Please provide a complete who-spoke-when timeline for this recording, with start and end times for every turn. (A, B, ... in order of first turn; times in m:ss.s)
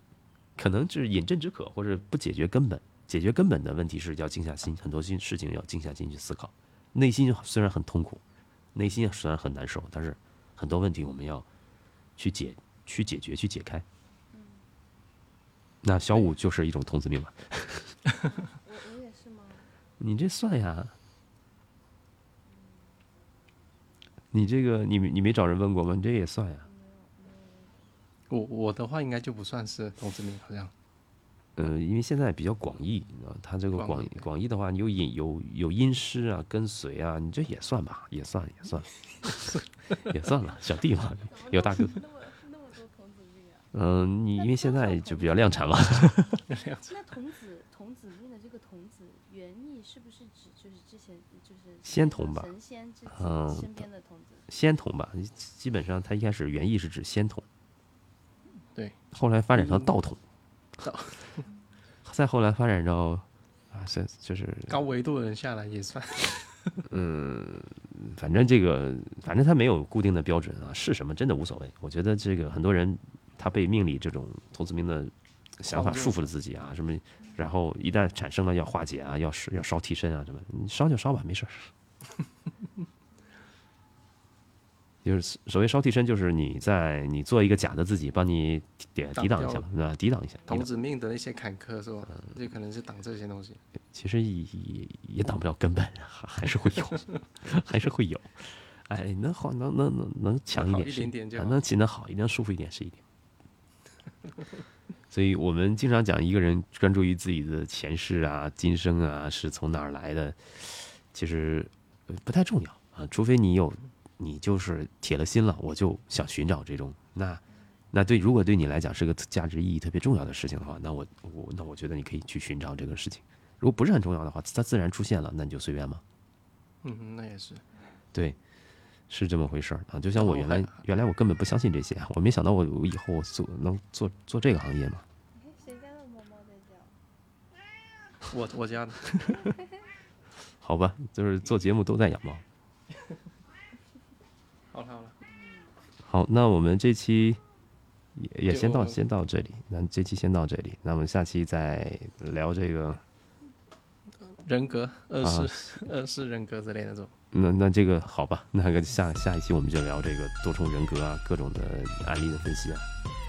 0:00.6-0:08.2 A
0:08.7-0:11.4 A
0:12.2-0:13.8 A
0:14.3-0:14.6 B
0:15.8-0:18.0 A
0:18.1-0:19.7 B
0:20.0-0:20.9 A
0:22.5-0:23.0 B
0:24.3-0:26.6 A
0:26.6-0:27.8 B
0:28.3-0:30.7 C
0:31.6-0:42.0 A
0:33.7-0:34.2 C
0:41.2-0:43.7 B
0:43.7-0:46.4 A
0:44.4-0:45.8 B
0:46.5-0:46.9 C
0:46.8-0:54.5 B
0:51.8-0:52.5 A
0:53.1-0:53.8 A
0:54.5-0:57.4 A
0:59.1-1:00.2 A
0:59.5-0:59.9 C
1:00.8-1:01.4 C
1:02.0-1:04.8 A
1:04.7-1:06.8 C
1:06.9-1:21.7 A
1:15.7-1:16.2 C
1:25.0-1:30.7 A
1:29.1-1:29.6 C
1:30.5-1:33.6 C
1:33.9-1:43.0 A
1:40.5-1:41.6 C
1:45.1-2:06.0 A
2:06.8-2:07.6 C
2:09.1-2:15.0 A
2:10.2-2:10.8 C
2:15.3-2:16.9 B
2:18.3-2:19.2 C
2:20.6-2:22.4 A
2:24.7-2:25.2 C
2:25.3-2:25.7 B
2:26.0-2:27.4 A
2:28.1-2:33.0 A
2:28.5-2:29.0 C
2:34.2-2:37.1 C
2:35.2-2:35.5 A
2:37.3-2:42.9 A